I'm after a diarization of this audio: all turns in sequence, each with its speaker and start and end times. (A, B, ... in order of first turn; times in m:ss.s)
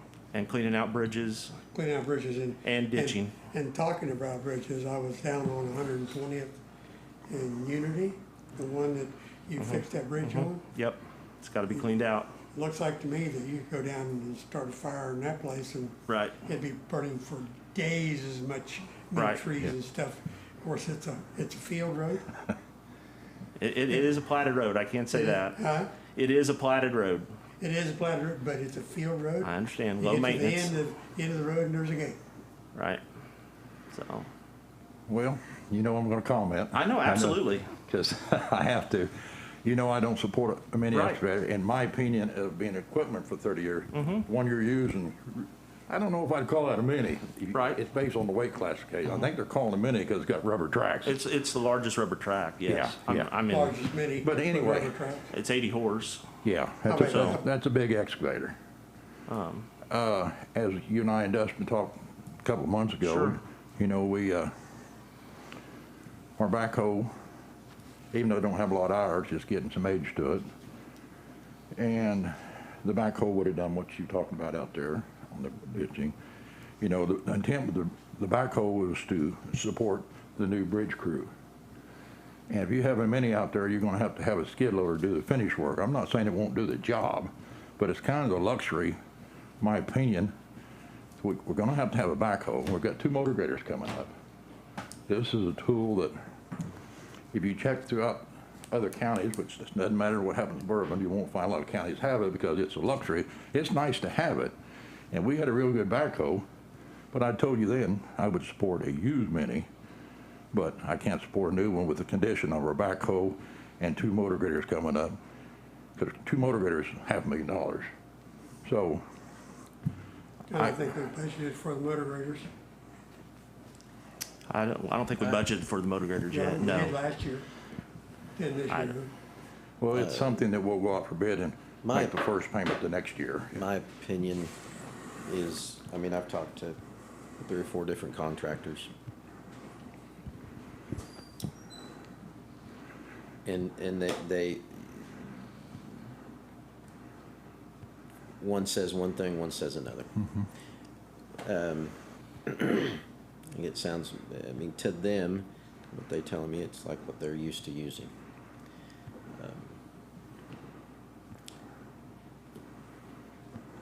0:00.3-0:01.5 A
0:01.7-0:06.6 B
0:02.6-0:03.3 A
0:07.3-0:10.6 B
0:09.6-0:12.3 A
0:12.5-0:22.3 B
0:16.1-0:16.4 A
0:19.2-0:19.4 A
0:23.6-0:27.3 A
0:25.1-0:25.9 B
0:27.6-0:32.2 B
0:29.4-0:30.7 A
0:32.7-0:33.0 A
0:33.9-0:34.3 A
0:35.1-0:51.2 C
0:36.7-0:37.7 A
0:40.9-0:41.2 A
0:51.0-0:53.8 A
0:52.6-0:53.3 C
0:53.5-0:55.3 B
0:54.2-0:54.9 C
0:55.3-0:56.2 A
0:56.4-0:58.6 C
0:56.9-0:57.4 B
0:57.0-0:57.4 A
0:59.3-0:59.7 A
0:59.9-1:04.5 C
1:03.0-1:03.4 A
1:06.4-1:07.1 C
1:08.1-1:10.4 C
1:11.8-1:16.2 C
1:16.8-1:21.3 C
1:22.5-1:29.0 C
1:29.6-1:30.3 C
1:31.2-1:34.1 C
1:35.1-1:36.1 C
1:37.3-1:44.5 C
1:45.1-1:46.4 C
1:47.1-1:49.7 C
1:50.5-1:55.2 C
1:56.0-1:57.9 C
1:58.6-1:59.0 C
2:00.5-2:02.5 B
2:04.5-2:06.9 A
2:06.3-2:07.5 B
2:08.4-2:09.1 B
2:09.8-2:13.6 C
2:09.9-2:10.3 D
2:11.8-2:12.2 D
2:13.5-2:14.5 D
2:15.2-2:16.8 D
2:17.4-2:18.9 D
2:23.4-2:25.1 D
2:28.4-2:30.2 D
2:31.4-2:31.9 D
2:32.4-2:33.0 D
2:33.5-2:38.1 D
2:39.3-2:39.8 D